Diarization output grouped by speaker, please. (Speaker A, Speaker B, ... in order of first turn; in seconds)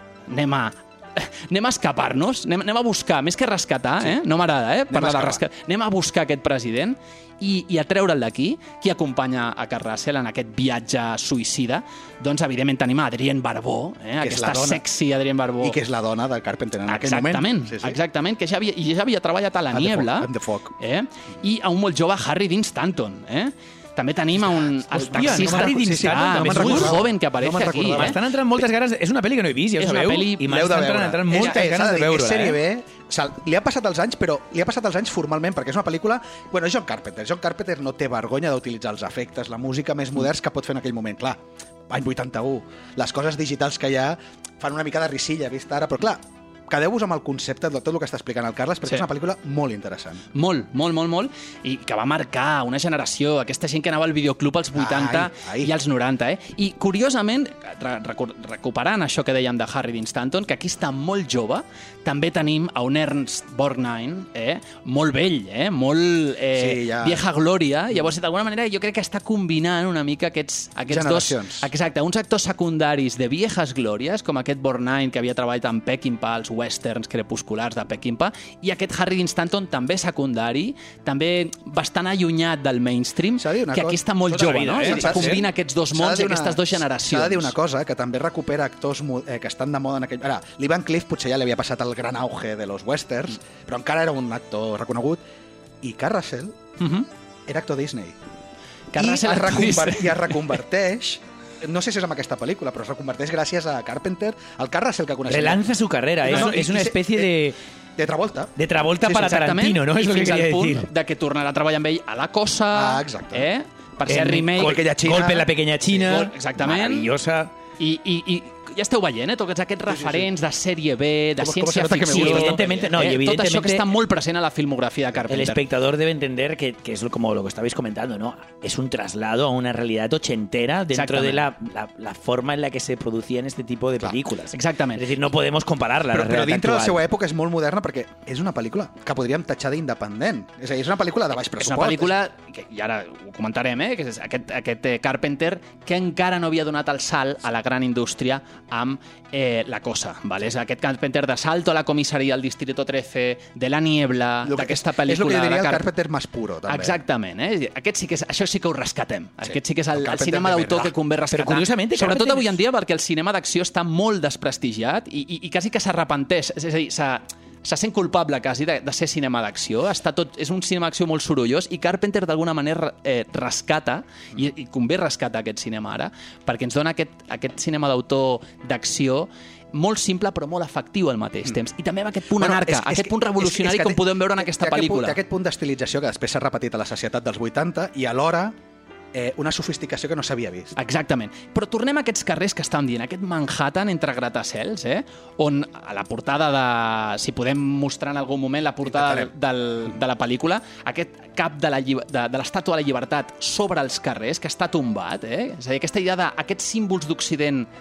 Speaker A: 0.3-15.8, 16.9-28.1, 29.8-30.4, 50.3-87.5, 96.8-97.1, 98.9-100.5, 106.3-106.6, 109.0-114.8, 116.0-117.1, 117.8-125.6, 130.9-131.4, 134.5-135.0, 141.6-155.8, 156.7-185.2, 190.8-207.7
Speaker B: 4.9-5.4, 14.2-14.8, 15.6-18.0, 19.7-20.7, 24.3-28.2, 30.4-50.2, 54.7-55.7, 66.5-67.2, 70.9-71.7, 83.4-84.0, 84.8-95.2, 95.8-96.7, 97.5-98.2, 98.9-105.7, 106.2-108.5, 112.7-113.5, 114.6-116.2, 119.9-120.3, 121.4-122.8, 136.1-142.1, 154.4-157.0, 159.4-160.9, 182.4-188.6, 189.1-190.7, 198.8-199.3
Speaker C: 25.0-27.0, 28.0-32.6, 84.3-85.3, 105.3-107.5, 108.6-110.9, 114.1-117.5, 122.1-123.9, 125.3-137.0, 161.3-162.5